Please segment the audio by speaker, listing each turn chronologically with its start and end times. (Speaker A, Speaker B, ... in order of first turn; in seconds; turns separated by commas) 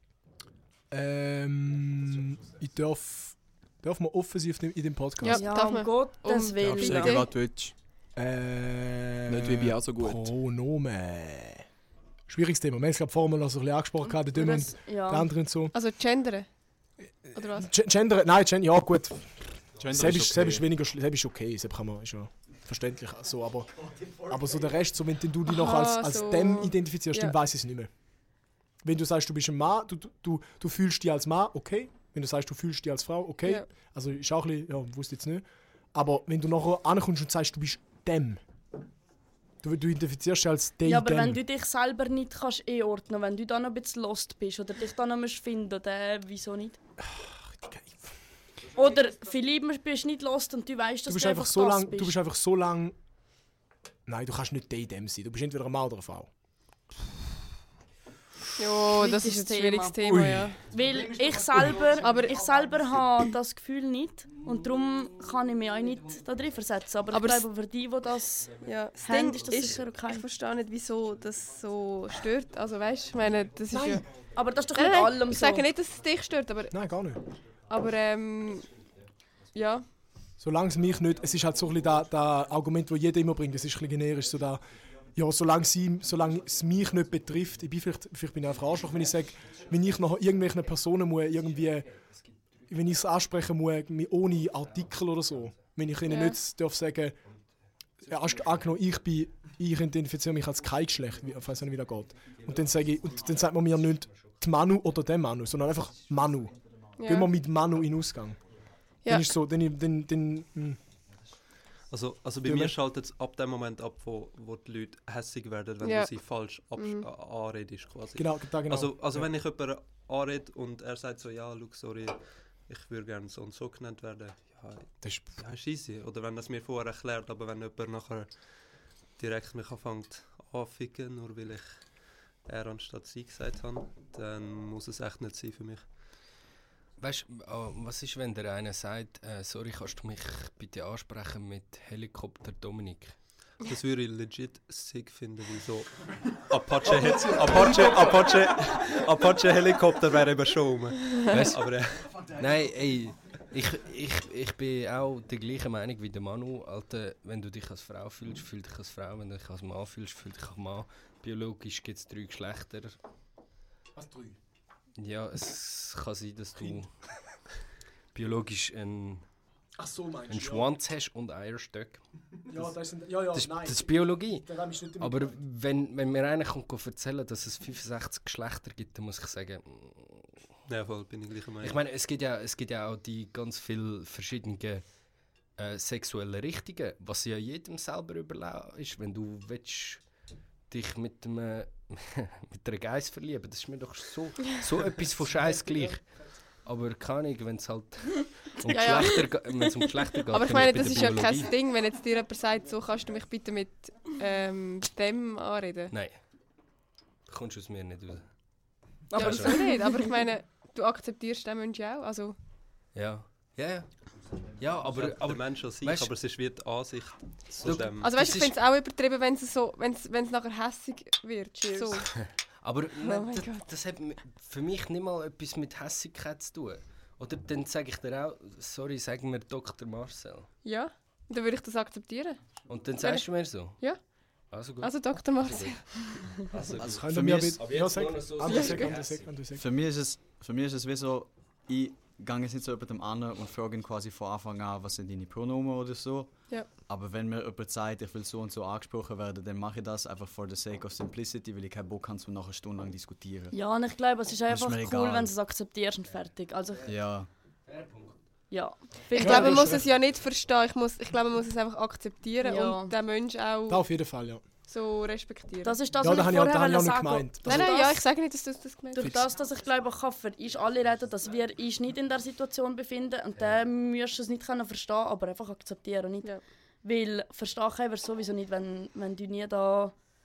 Speaker A: 0.9-5.4, Speaker B: 5.2-7.3, Speaker C: 5.3-7.2, Speaker D: 6.6-7.7, Speaker A: 8.2-11.6, Speaker D: 9.3-10.3, Speaker A: 12.3-15.7, Speaker C: 14.2-15.3, Speaker B: 15.7-16.5, Speaker B: 17.3-17.7, Speaker A: 17.3-27.9, Speaker D: 19.8-20.6, Speaker B: 25.4-27.4, Speaker A: 28.8-38.4, Speaker A: 39.6-41.4, Speaker C: 40.8-46.8, Speaker A: 47.0-48.1, Speaker C: 48.7-52.1, Speaker A: 51.1-52.9, Speaker A: 54.0-56.3, Speaker B: 58.6-60.6, Speaker C: 58.9-70.2, Speaker B: 62.0-62.4, Speaker B: 67.1-67.5, Speaker E: 68.5-69.7, Speaker B: 68.6-74.0, Speaker A: 73.7-74.0, Speaker C: 74.3-75.7, Speaker B: 74.7-76.8, Speaker A: 76.7-77.2, Speaker B: 77.7-78.7, Speaker E: 78.7-78.9, Speaker B: 79.5-79.9, Speaker A: 80.4-91.9, Speaker E: 88.9-89.7, Speaker E: 91.3-92.9, Speaker A: 92.7-97.2, Speaker E: 94.5-95.6, Speaker B: 96.1-96.4, Speaker E: 98.0-98.7, Speaker A: 98.0-108.4, Speaker E: 102.2-104.3, Speaker B: 107.0-107.3, Speaker B: 109.0-109.3, Speaker A: 109.0-110.8, Speaker F: 111.9-128.3, Speaker A: 112.4-112.7, Speaker B: 115.8-116.1, Speaker B: 116.7-117.1, Speaker A: 118.2-119.3, Speaker F: 129.2-131.8, Speaker F: 132.4-135.9, Speaker E: 137.0-143.2, Speaker F: 143.6-152.2, Speaker A: 147.0-148.0, Speaker E: 151.2-163.0, Speaker A: 163.9-164.4, Speaker E: 165.0-166.9, Speaker E: 168.1-169.2, Speaker A: 169.8-170.7, Speaker E: 170.3-172.0, Speaker A: 172.5-175.4, Speaker E: 173.3-180.4, Speaker F: 180.7-181.8, Speaker E: 181.6-185.0, Speaker E: 185.5-190.1, Speaker E: 190.7-201.5, Speaker B: 198.7-199.7, Speaker B: 200.3-205.9, Speaker E: 205.9-206.2, Speaker E: 207.3-208.3, Speaker C: 209.1-210.1, Speaker E: 209.1-209.6, Speaker B: 209.2-212.3, Speaker E: 212.9-216.1, Speaker F: 214.8-218.1, Speaker E: 217.6-218.6, Speaker B: 218.0-222.1, Speaker E: 222.1-230.5, Speaker B: 223.0-223.6, Speaker B: 230.6-232.4, Speaker E: 232.7-233.9, Speaker B: 233.0-234.0, Speaker E: 234.4-239.4, Speaker B: 234.8-236.0, Speaker G: 236.8-237.6, Speaker A: 236.8-239.6, Speaker B: 238.4-238.9, Speaker G: 239.5-253.5, Speaker C: 253.5-256.9, Speaker G: 254.5-255.3, Speaker G: 256.9-257.3, Speaker E: 257.6-258.1, Speaker C: 258.5-259.8, Speaker B: 259.1-263.8, Speaker A: 259.1-259.8, Speaker C: 262.4-262.9, Speaker A: 263.7-264.4, Speaker B: 264.7-265.8, Speaker C: 265.6-268.0, Speaker A: 266.0-267.7, Speaker B: 267.4-269.2, Speaker C: 268.9-279.9